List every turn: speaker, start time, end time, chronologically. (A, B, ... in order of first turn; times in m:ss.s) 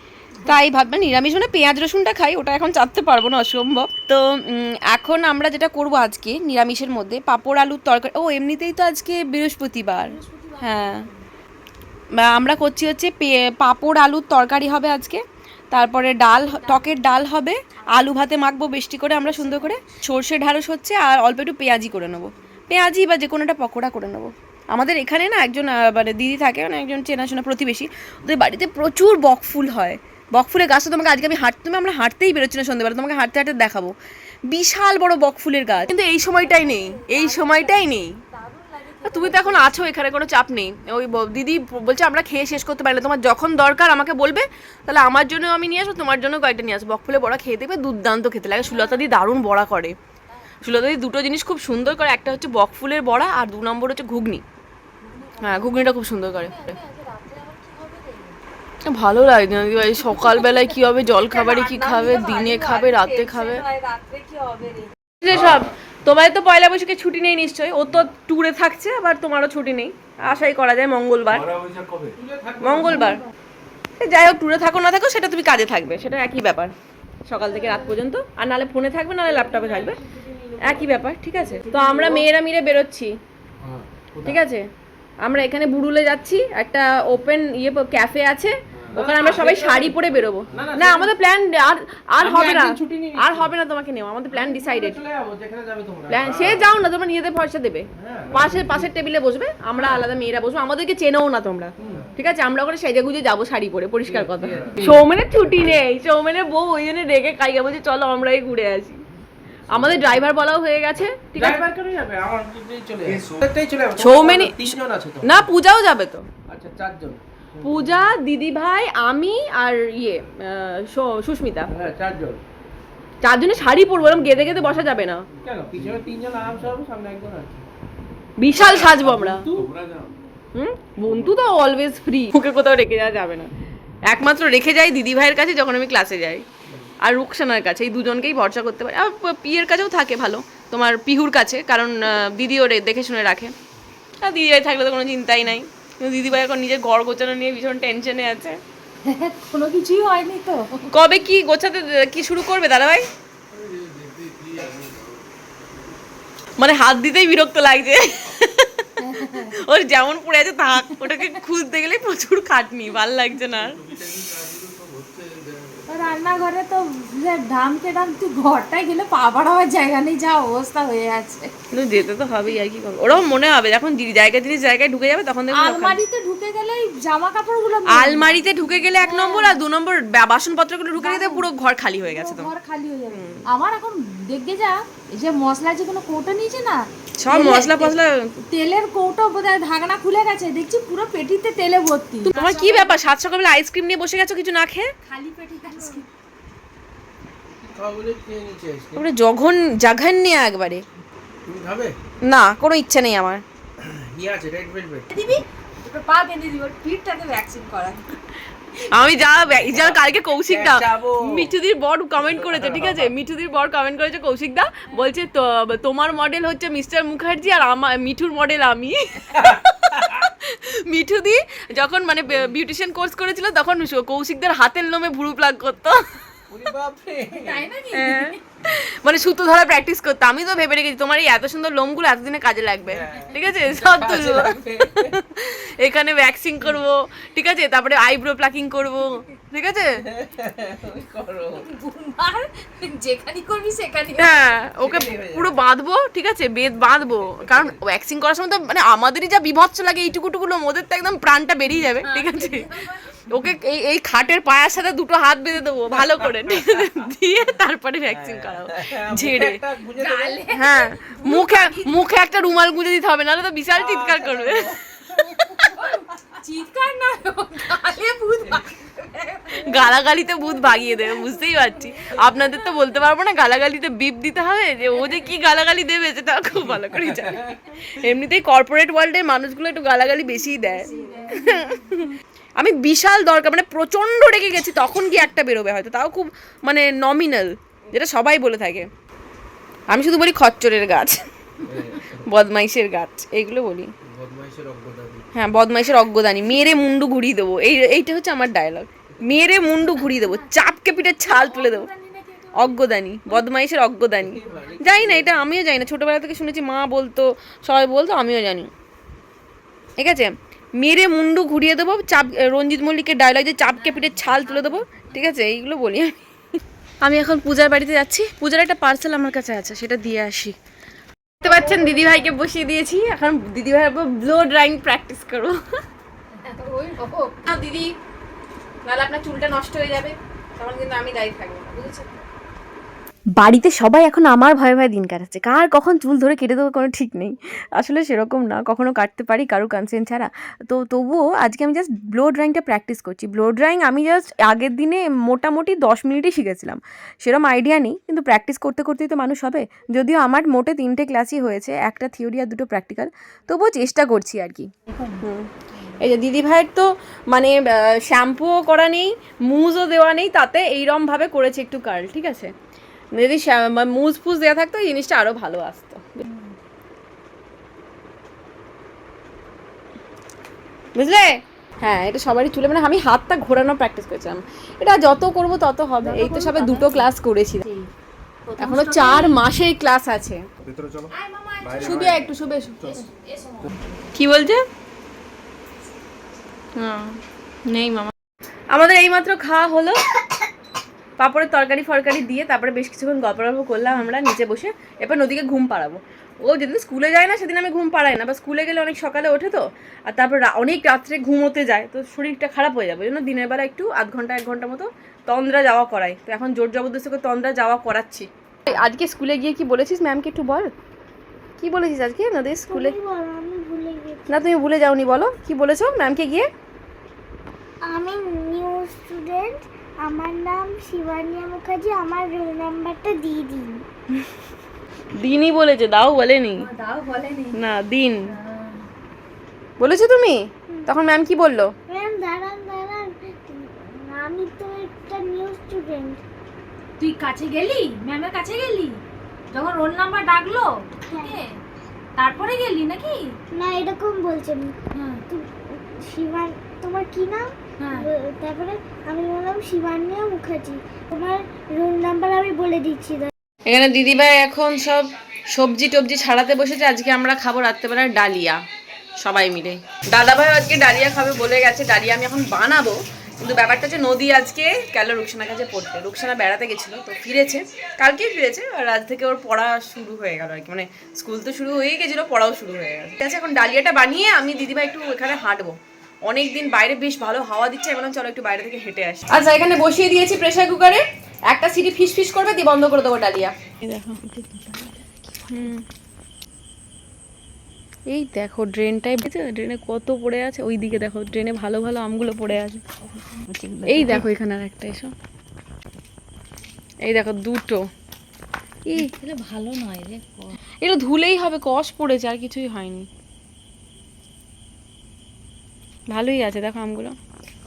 0:00.4-0:11.1 A
0:10.0-0:11.2 B
0:12.2-0:33.9 A
0:16.4-0:17.1 B
0:18.0-0:18.4 B
0:19.2-0:20.0 B
0:34.5-0:38.2 A
0:35.9-0:39.9 B
0:39.0-0:50.0 A
0:48.6-0:49.0 B
0:50.6-0:54.4 A
0:55.0-0:55.9 B
0:55.4-0:56.8 A
0:56.4-0:58.4 B
0:58.8-1:03.6 A
0:59.9-1:04.9 B
1:05.2-1:11.5 A
1:05.3-1:05.7 C
1:11.3-1:12.2 C
1:12.2-1:13.1 D
1:12.6-1:13.2 A
1:14.0-1:16.7 A
1:17.3-1:20.0 A
1:17.4-1:17.9 D
1:19.2-1:22.3 D
1:20.6-1:23.1 A
1:23.6-1:24.4 C
1:24.2-1:24.7 A
1:25.2-1:35.0 A
1:28.8-1:29.0 C
1:28.9-1:31.1 D
1:32.2-1:33.6 D
1:34.3-1:36.7 D
1:36.1-1:49.0 A
1:38.0-1:38.9 D
1:39.8-1:40.1 D
1:41.8-1:42.1 D
1:44.0-1:45.8 D
1:49.7-1:51.7 A
1:51.4-1:55.5 D
1:53.1-1:53.5 C
1:54.0-1:56.3 A
1:56.5-1:58.0 D
1:57.6-2:01.7 A
2:01.7-2:02.4 D
2:03.2-2:05.3 A
2:05.4-2:07.6 D
2:05.7-2:06.0 C
2:08.4-2:09.5 A
2:08.6-2:09.7 D
2:09.5-2:10.1 C
2:10.5-2:13.5 A
2:14.1-2:16.4 A
2:17.0-2:23.5 A
2:24.2-2:28.6 A
2:29.1-2:30.9 B
2:30.9-2:33.1 A
2:33.5-2:35.2 C
2:36.6-2:43.8 A
2:39.0-2:39.5 B
2:43.7-2:46.2 C
2:45.9-2:51.5 B
2:51.7-2:56.0 A
2:55.5-2:59.6 B
2:57.9-3:02.5 A
3:01.0-3:01.5 B
3:02.1-3:08.0 B
3:03.1-3:03.5 A
3:07.2-3:08.3 A
3:08.5-3:13.0 B
3:12.2-3:14.9 A
3:15.1-3:16.1 B
3:17.7-3:19.0 D
3:19.0-3:20.8 A
3:21.5-3:22.0 D
3:22.2-3:23.4 A
3:23.8-3:25.1 D
3:25.1-3:28.2 B
3:28.9-3:46.0 A
3:29.6-3:31.5 D
3:32.4-3:33.1 D
3:39.4-3:40.1 D
3:46.5-3:47.7 D
3:47.3-3:48.4 B
3:47.9-4:00.0 A
3:52.9-3:55.2 D
4:00.1-4:01.7 D
4:01.6-4:04.5 B
4:04.2-4:12.7 A
4:04.8-4:05.5 D
4:07.3-4:07.7 D
4:12.0-4:13.2 B
4:13.3-4:19.6 A
4:16.1-4:16.9 D
4:18.1-4:20.5 D
4:20.0-4:22.1 B
4:20.5-4:24.8 A
4:23.7-4:25.3 D
4:25.4-4:29.9 B
4:29.5-4:48.9 A
4:31.0-4:31.2 B
4:40.8-4:42.0 B
4:49.9-4:51.2 A
4:51.7-4:52.2 D
4:52.1-4:53.9 A
4:54.0-4:55.3 D
4:55.4-5:01.9 A
4:59.8-5:02.8 B
5:02.5-5:08.7 A
5:04.2-5:05.4 D
5:04.4-5:04.7 B
5:10.0-5:16.2 A
5:13.8-5:15.3 B
5:17.0-5:20.6 A
5:21.4-5:25.6 A
5:21.5-5:21.9 B
5:26.4-5:27.4 B
5:27.4-5:27.9 A
5:28.8-5:32.1 A
5:33.4-6:02.5 A
5:54.9-5:55.2 B
6:03.2-6:06.3 A
6:06.3-6:06.5 B
6:11.0-6:17.6 A
6:16.0-6:17.1 B
6:17.6-6:17.9 B
6:18.5-6:19.4 B
6:18.6-6:20.4 A
6:20.6-6:22.3 C
6:21.1-6:22.2 B
6:21.8-6:22.9 A
6:22.8-6:24.1 B
6:24.1-6:24.6 A
6:26.8-6:28.1 A
6:28.7-6:30.0 A
6:31.2-6:50.7 A
6:51.6-6:53.0 A
6:52.7-6:54.5 E
6:54.3-6:56.5 A
6:57.8-7:03.8 E
7:05.1-7:06.7 A
7:06.6-7:07.6 B
7:07.5-7:08.3 A
7:08.3-7:08.8 B
7:09.8-7:11.7 A
7:11.9-7:16.2 E
7:17.0-7:21.6 B
7:21.1-7:21.4 E
7:22.2-7:23.4 B
7:23.5-7:24.8 E
7:24.9-7:25.2 B
7:25.3-7:33.3 E
7:27.8-7:28.1 B
7:33.7-7:38.6 A
7:39.2-7:55.8 A
7:56.3-8:04.2 A
8:04.2-8:05.7 B
8:05.5-8:05.8 A
8:08.1-8:12.8 A
8:13.3-8:14.3 B
8:13.8-8:15.1 A
8:17.0-8:17.8 A
8:18.9-8:20.6 B
8:20.8-8:23.1 A
8:26.1-8:27.2 A